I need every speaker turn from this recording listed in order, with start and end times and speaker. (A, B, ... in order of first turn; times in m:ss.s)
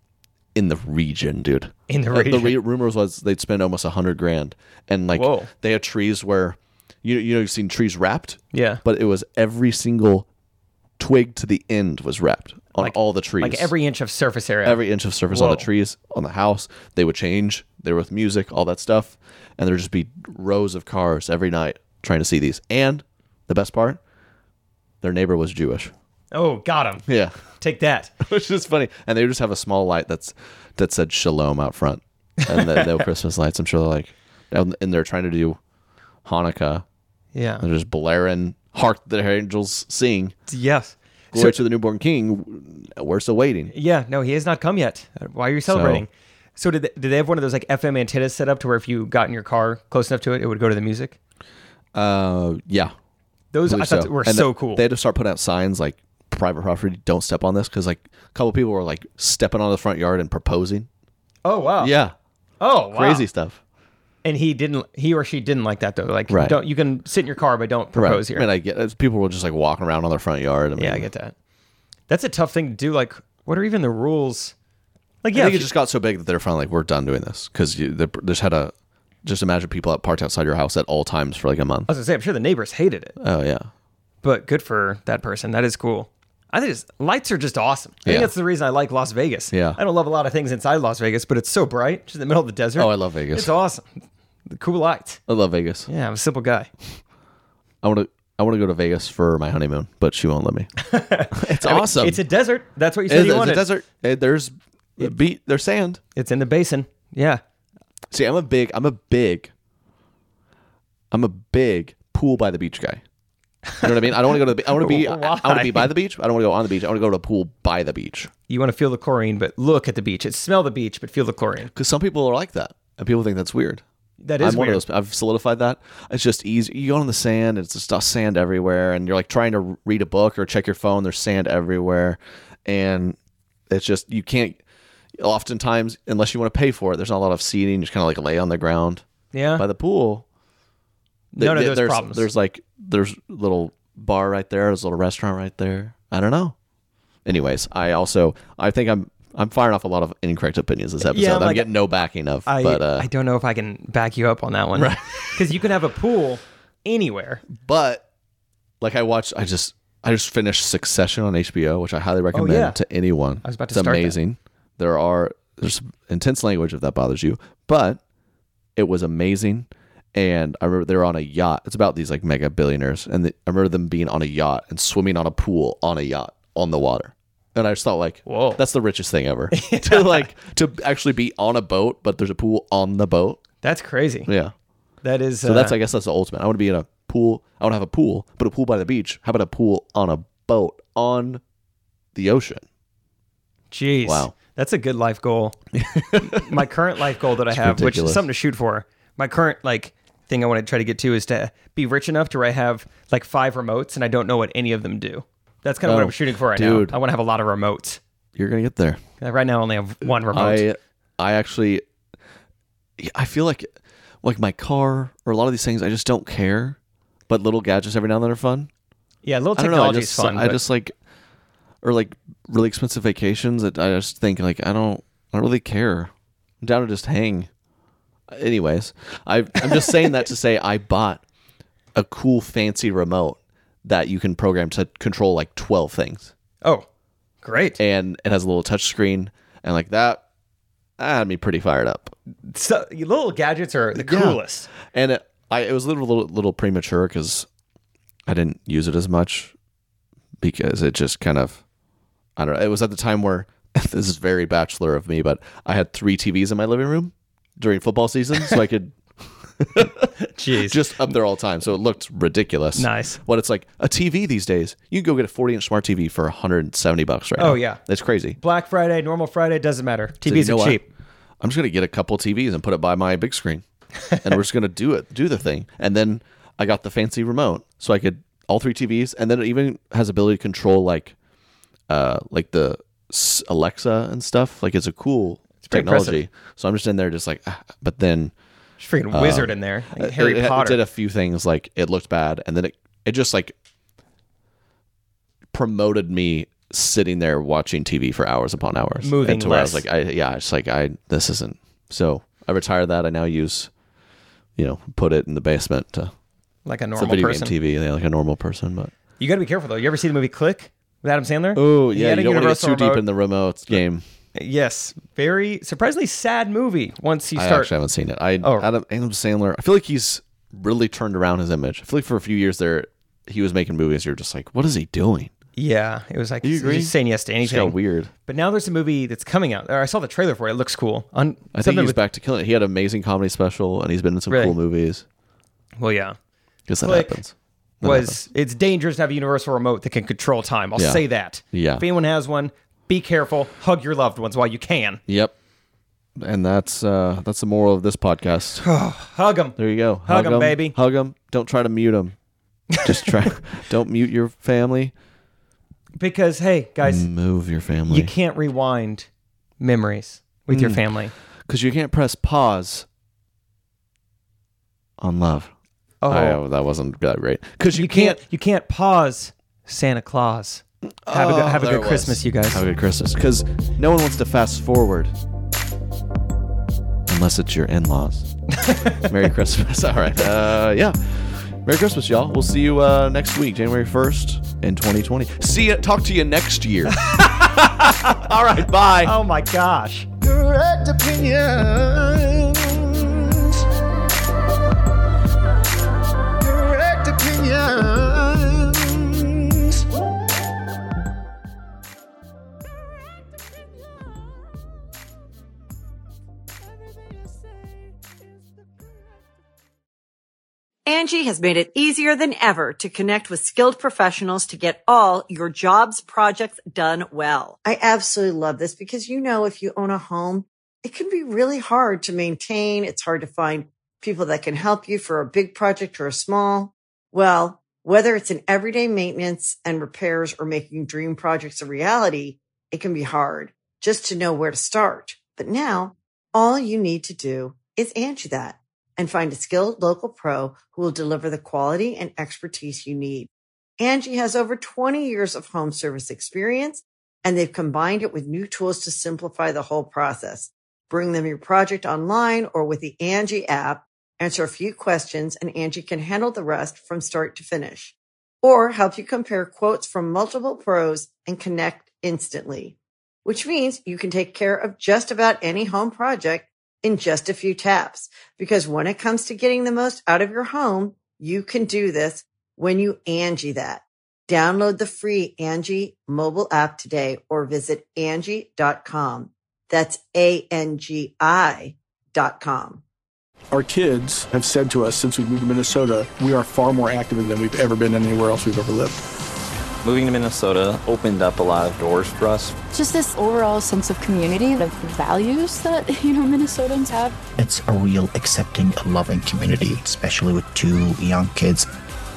0:00.5-0:10.3 A
0:01.9-0:02.6 B
0:05.1-0:05.5 B
0:08.5-0:08.8 B
0:11.0-0:13.7 A
0:12.8-0:15.7 B
0:14.6-0:24.0 A
0:25.0-0:25.9 A
0:26.3-0:27.0 B
0:27.1-0:27.4 A
0:27.6-0:28.1 B
0:28.2-0:35.6 A
0:32.4-0:33.0 B
0:36.2-0:36.8 A
0:37.3-0:37.6 B
0:37.6-0:40.3 A
0:40.5-0:41.6 B
0:41.3-0:43.7 A
0:43.7-0:51.2 B
0:45.7-0:46.0 A
0:51.9-0:52.9 A
0:53.5-0:54.8 B
0:53.7-1:00.9 A
1:01.4-1:01.9 B
1:01.8-1:02.2 A
1:02.6-1:03.3 B
1:02.9-1:03.6 A
1:04.2-1:08.5 B
1:06.3-1:06.6 A
1:07.9-1:11.1 A
1:10.8-1:11.3 B
1:12.1-1:14.5 B
1:15.2-1:15.7 B
1:15.3-1:18.7 A
1:19.2-1:21.9 A
1:21.9-1:23.2 B
1:23.2-1:23.7 A
1:24.2-1:33.9 B
1:28.0-1:28.3 A
1:29.5-1:29.8 A
1:32.8-1:33.5 A
1:34.5-1:35.2 B
1:35.3-1:35.9 A
1:35.9-1:36.7 B
1:37.8-1:40.7 A
1:40.8-1:43.7 B
1:41.3-1:42.2 A
1:43.1-1:46.0 A
1:46.2-1:47.4 B
1:48.1-1:49.5 A
1:51.1-1:53.0 A
1:53.7-1:55.9 B
1:53.8-1:58.3 A
1:58.5-2:01.7 B
2:01.7-2:03.8 A
2:04.2-2:04.8 B
2:04.4-2:13.2 A
2:13.7-2:14.6 A
2:15.2-2:19.0 A
2:19.3-2:19.6 B
2:19.6-2:20.2 A
2:21.3-2:22.3 B
2:21.4-2:26.6 A
2:27.2-2:33.1 A
2:31.0-2:31.7 B
2:32.4-2:37.4 B
2:34.8-2:35.5 A
2:37.5-2:38.0 A
2:38.8-2:48.0 A
2:42.3-2:42.8 B
2:43.4-2:44.2 B
2:48.8-3:03.4 A
2:58.3-2:58.6 B
2:59.5-3:00.3 B
3:03.6-3:04.3 B
3:04.3-3:04.5 A
3:05.0-3:05.8 B
3:05.4-3:11.4 A
3:12.2-3:12.6 A
3:13.7-3:15.6 B
3:14.0-3:14.3 A
3:15.7-3:16.7 A
3:16.2-3:28.0 B
3:17.4-3:18.3 A
3:25.8-3:27.0 A
3:28.4-3:29.0 A
3:29.2-3:30.7 B
3:30.3-3:31.8 A
3:33.0-3:36.8 A
3:37.3-3:38.7 A
3:39.2-3:40.6 B
3:39.6-3:41.0 A
3:41.8-3:47.5 A
3:48.3-3:51.2 A
3:52.0-3:56.3 A
3:57.4-3:57.8 B
3:57.8-4:00.2 A
4:01.0-4:02.1 A
4:02.5-4:04.7 B
4:03.9-4:07.5 A
4:08.3-4:09.5 A
4:10.4-4:11.6 A
4:12.4-4:19.0 A
4:19.6-4:28.4 A
4:20.2-4:20.9 B
4:22.8-4:23.2 B
4:27.4-4:27.8 B
4:28.4-4:30.9 B
4:30.2-4:30.8 A
4:31.4-4:41.2 A
4:41.9-4:48.3 A
4:45.6-4:46.2 B
4:48.8-4:50.8 B
4:49.1-4:53.6 A
4:55.5-5:03.7 A
4:59.0-4:59.8 B
5:04.6-5:06.1 A
5:06.7-5:07.5 B
5:07.0-5:08.9 A
5:09.2-5:13.0 B
5:11.6-5:14.0 A
5:14.4-5:17.7 B
5:17.4-5:25.3 A
5:18.4-5:18.7 B
5:25.6-5:32.0 B
5:26.4-5:28.1 A
5:31.5-5:35.0 A
5:34.3-5:34.6 B
5:35.8-5:36.2 B
5:36.7-5:38.2 A
5:36.8-5:37.2 B
5:37.8-5:45.0 B
5:40.8-5:41.8 A
5:45.1-5:45.3 A
5:46.2-5:48.6 A
5:48.6-5:50.8 B
5:49.6-5:52.2 A
5:52.7-5:53.2 B
5:52.8-5:54.9 A
5:56.0-5:57.1 B
5:56.8-5:58.1 A
5:57.9-5:59.1 B
5:59.6-6:01.1 B
6:00.5-6:00.8 A
6:01.5-6:02.9 A
6:05.0-6:05.5 A
6:06.0-6:06.4 B
6:06.1-6:08.2 A
6:07.7-6:12.6 B
6:11.1-6:15.1 A
6:17.1-6:29.2 A
6:18.6-6:19.1 B
6:26.9-6:30.1 B
6:30.2-6:33.6 A
6:36.4-6:39.9 A
6:50.9-8:02.8 C
8:03.5-8:09.0 D
8:09.8-8:12.6 E
8:12.7-8:17.2 F
8:17.4-8:21.7 G